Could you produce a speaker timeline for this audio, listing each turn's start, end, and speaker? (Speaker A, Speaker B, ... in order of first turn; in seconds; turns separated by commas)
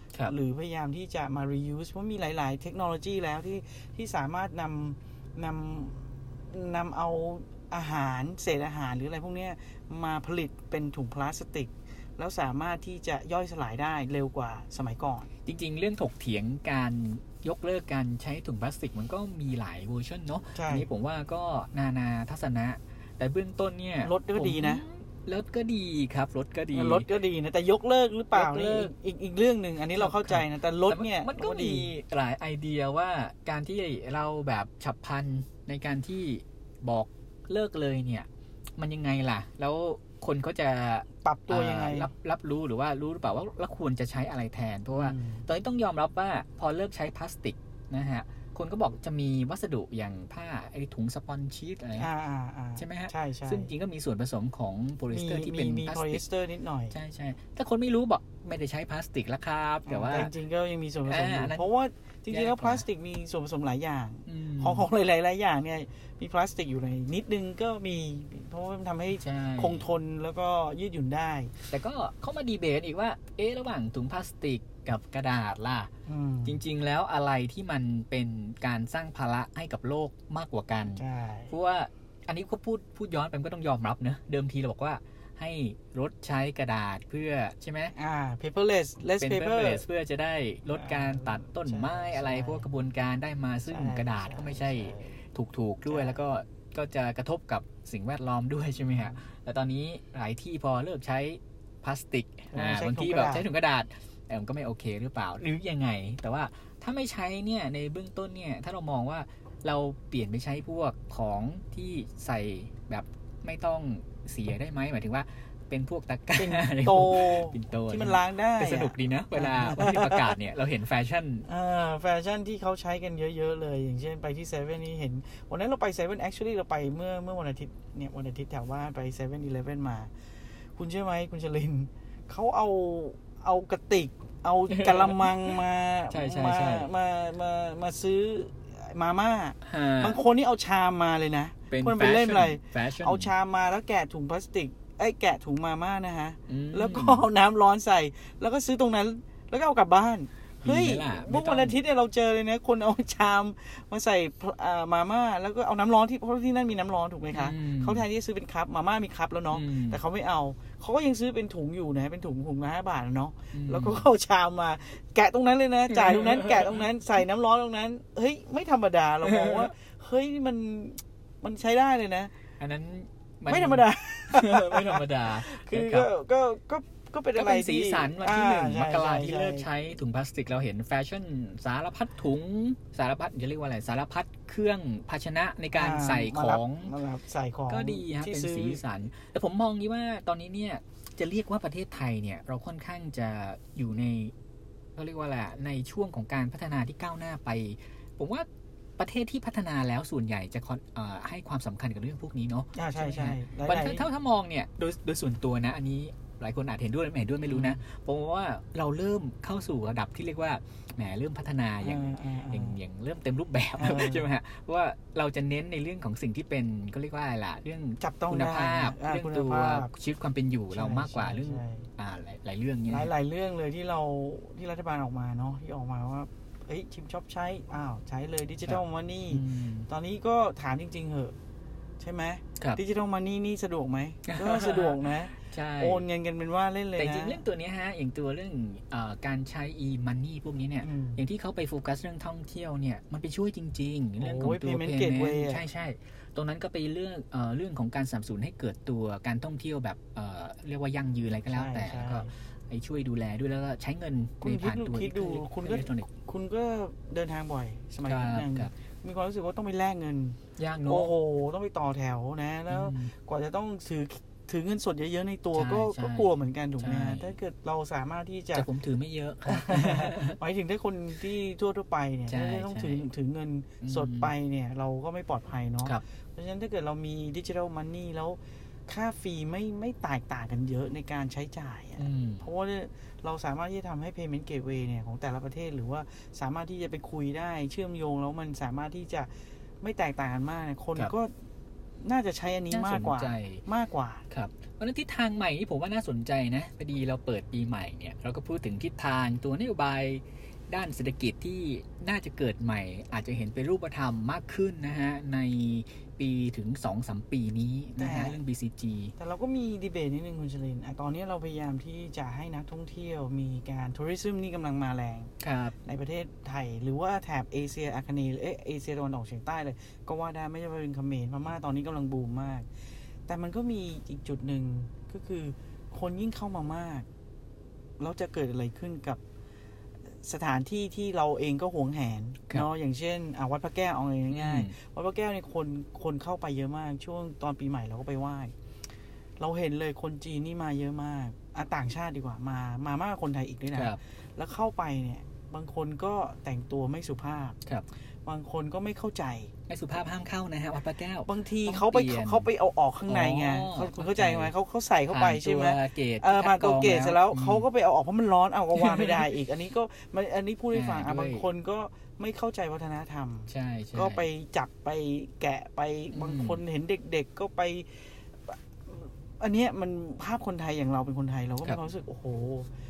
Speaker A: 0.2-15.3, Speaker B: 15.4-27.1, Speaker A: 20.5-20.9, Speaker A: 24.0-24.8, Speaker A: 26.7-31.9, Speaker B: 28.3-28.9, Speaker B: 29.9-52.1, Speaker A: 41.2-42.1, Speaker A: 44.9-45.5, Speaker A: 52.0-53.7, Speaker B: 52.8-56.2, Speaker A: 55.1-57.0, Speaker B: 56.9-60.3, Speaker A: 59.9-71.5, Speaker B: 61.0-61.7, Speaker B: 62.3-62.8, Speaker B: 64.3-64.9, Speaker B: 69.1-69.8, Speaker B: 71.7-75.9, Speaker A: 76.1-76.6, Speaker B: 76.4-87.9, Speaker A: 80.9-81.5, Speaker A: 88.0-89.8, Speaker B: 89.2-121.5, Speaker A: 90.7-92.7, Speaker A: 93.7-95.2, Speaker A: 95.9-96.2, Speaker A: 102.5-103.5, Speaker A: 116.4-120.3, Speaker A: 121.5-130.1, Speaker A: 130.8-172.3, Speaker B: 134.7-135.6, Speaker B: 136.1-136.9, Speaker B: 139.6-140.2, Speaker B: 141.7-143.3, Speaker B: 146.5-147.2, Speaker B: 150.6-151.8, Speaker B: 157.3-158.0, Speaker B: 159.5-160.0, Speaker B: 163.5-164.1, Speaker B: 165.9-166.8, Speaker B: 169.2-169.7, Speaker B: 172.6-176.1, Speaker A: 173.5-179.7, Speaker B: 177.3-186.9, Speaker A: 185.8-188.8, Speaker B: 187.7-194.3, Speaker B: 194.9-223.1, Speaker A: 202.7-204.1, Speaker A: 207.4-207.8, Speaker A: 211.8-212.8, Speaker A: 213.8-214.3, Speaker A: 218.0-219.9, Speaker A: 220.7-221.9, Speaker A: 222.9-231.3, Speaker B: 228.7-229.9, Speaker A: 232.0-237.4, Speaker B: 234.3-236.0, Speaker B: 237.0-256.1, Speaker A: 240.8-241.2, Speaker A: 244.2-245.6, Speaker A: 251.5-252.3, Speaker A: 254.4-268.7, Speaker B: 258.0-258.7, Speaker B: 260.6-261.1, Speaker B: 262.7-263.1, Speaker B: 265.5-267.3, Speaker B: 268.5-270.4, Speaker A: 269.4-289.3, Speaker B: 272.3-273.1, Speaker B: 273.8-274.3, Speaker B: 282.0-282.4, Speaker A: 289.8-291.3, Speaker A: 292.0-294.3, Speaker B: 292.7-293.6, Speaker B: 294.3-309.1, Speaker A: 308.0-308.4, Speaker A: 309.2-315.3, Speaker B: 315.4-315.7, Speaker A: 315.8-322.7, Speaker A: 323.3-327.1, Speaker A: 328.0-329.2, Speaker A: 330.2-338.5, Speaker B: 334.3-334.7, Speaker A: 339.4-347.6, Speaker B: 343.7-344.0, Speaker A: 348.2-349.5, Speaker B: 349.7-352.5, Speaker A: 351.3-372.7, Speaker B: 353.1-354.5, Speaker B: 355.1-357.6, Speaker B: 358.7-359.3, Speaker B: 360.7-361.5, Speaker B: 363.5-364.2, Speaker B: 366.1-366.6